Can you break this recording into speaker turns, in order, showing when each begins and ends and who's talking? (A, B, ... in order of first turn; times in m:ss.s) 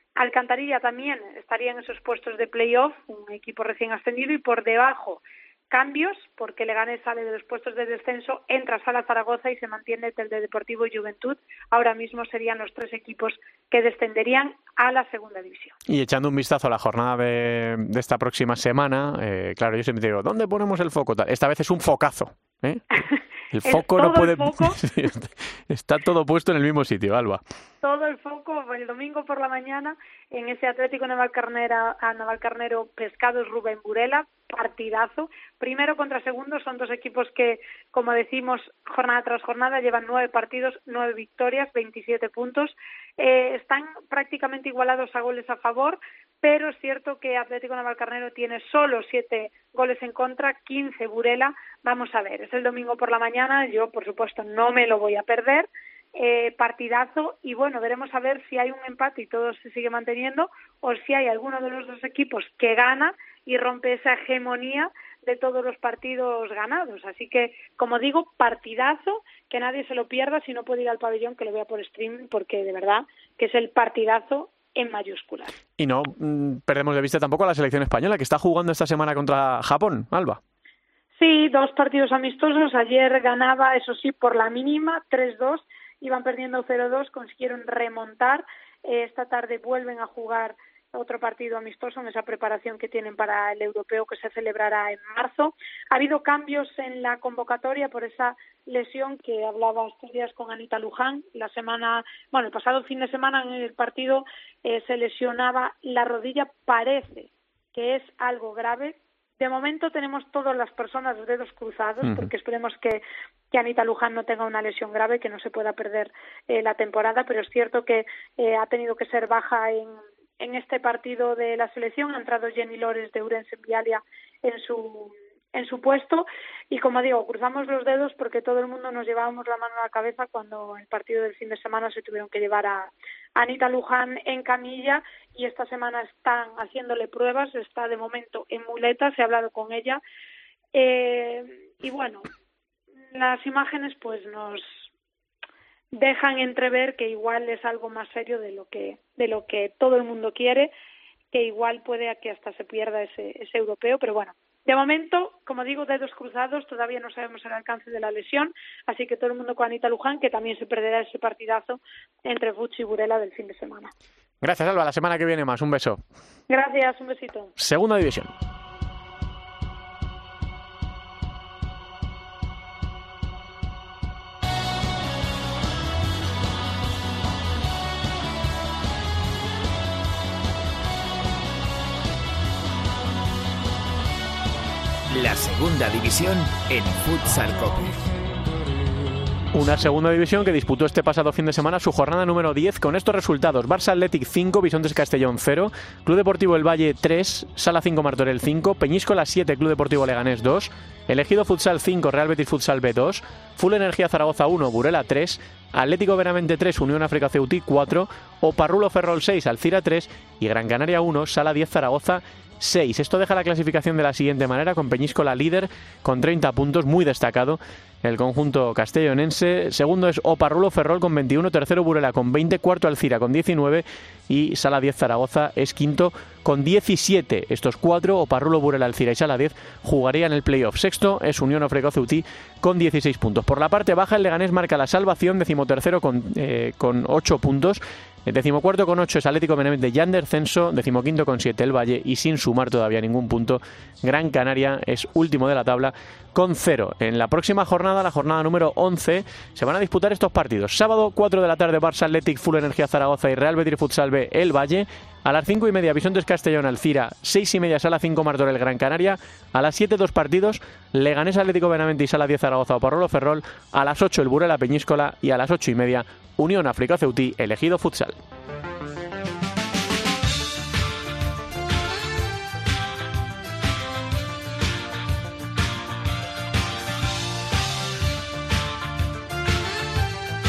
0:00.2-0:15.8 A
0:15.9-0:27.4 B
0:23.6-0:24.8 A
0:27.8-1:15.6 A
1:15.8-1:20.4 B
1:21.2-2:20.0 A
1:52.0-1:52.3 B
2:20.7-2:22.3 A
2:23.1-2:24.8 A
2:25.9-2:30.7 A
2:31.3-2:43.9 A
2:44.4-2:46.0 B
2:46.5-2:47.5 A
2:47.6-2:48.3 B
3:05.1-3:08.0 C
3:09.5-4:28.2 B